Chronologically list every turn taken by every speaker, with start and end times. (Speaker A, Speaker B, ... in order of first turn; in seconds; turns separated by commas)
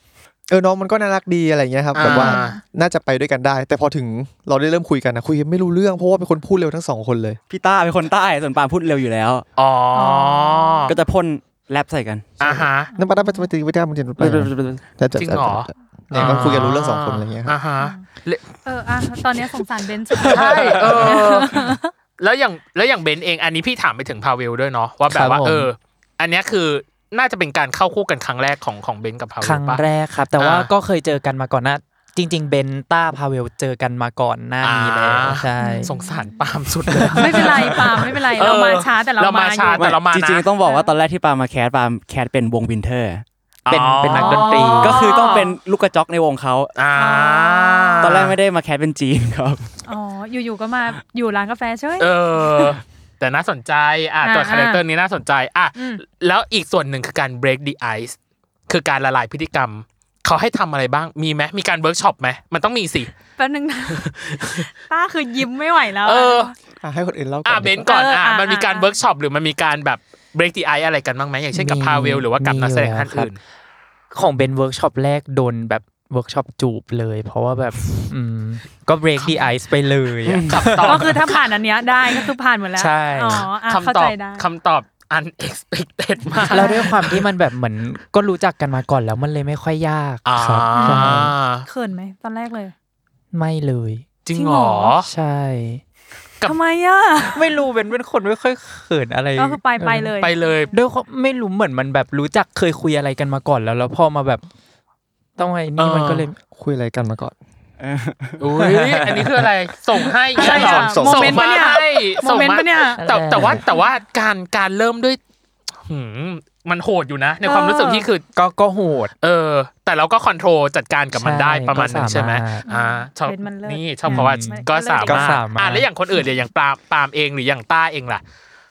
Speaker A: 0.5-7.4, Speaker B: 1.9-2.6, Speaker C: 2.0-2.6, Speaker D: 7.5-9.4, Speaker B: 9.6-10.9, Speaker C: 9.9-10.9, Speaker D: 10.9-12.6, Speaker B: 12.4-12.9, Speaker A: 12.4-17.6, Speaker C: 12.8-13.5, Speaker D: 14.2-14.8, Speaker B: 15.1-18.6, Speaker C: 17.8-18.0, Speaker C: 18.6-21.9, Speaker A: 20.2-20.9, Speaker B: 20.2-29.8, Speaker E: 25.1-25.7, Speaker E: 29.4-35.9, Speaker B: 30.4-30.7, Speaker B: 34.6-40.5, Speaker C: 35.6-36.4, Speaker E: 36.9-37.8, Speaker C: 37.1-39.9, Speaker D: 39.8-43.2, Speaker C: 40.6-40.9, Speaker B: 43.7-45.5, Speaker E: 43.7-45.0, Speaker D: 44.1-46.8, Speaker C: 44.4-45.5, Speaker B: 46.8-48.4, Speaker C: 46.9-48.2, Speaker D: 48.0-49.7, Speaker C: 49.9-52.8, Speaker B: 52.0-58.1, Speaker C: 54.2-54.8, Speaker C: 55.8-56.0, Speaker B: 58.7-63.2, Speaker C: 63.4-66.5, Speaker B: 63.9-64.7, Speaker B: 66.0-66.5, Speaker A: 66.8-67.9, Speaker B: 67.4-73.4, Speaker C: 67.9-68.9, Speaker E: 71.5-73.3, Speaker E: 74.1-81.0, Speaker B: 79.2-79.5, Speaker D: 80.2-80.8, Speaker B: 80.5-82.2, Speaker C: 80.8-84.5, Speaker E: 82.8-83.5, Speaker B: 83.6-87.2, Speaker C: 86.4-87.0, Speaker E: 86.5-91.3, Speaker B: 90.2-91.7, Speaker C: 90.7-92.7, Speaker E: 93.3-94.0, Speaker B: 94.2-95.1, Speaker C: 94.3-94.9, Speaker E: 95.0-95.8, Speaker C: 96.4-97.5, Speaker E: 97.3-100.1, Speaker C: 99.3-100.7, Speaker B: 100.2-100.7, Speaker E: 100.7-104.4, Speaker E: 105.4-106.3, Speaker B: 105.8-106.2, Speaker A: 106.5-107.3, Speaker D: 107.8-108.5, Speaker B: 108.4-115.2, Speaker C: 110.3-113.8, Speaker A: 110.4-111.6, Speaker E: 113.0-113.6, Speaker B: 115.8-118.2, Speaker C: 117.4-118.1, Speaker E: 118.3-119.1, Speaker B: 119.2-128.2, Speaker E: 121.1-122.6, Speaker C: 122.6-125.4, Speaker E: 124.1-125.9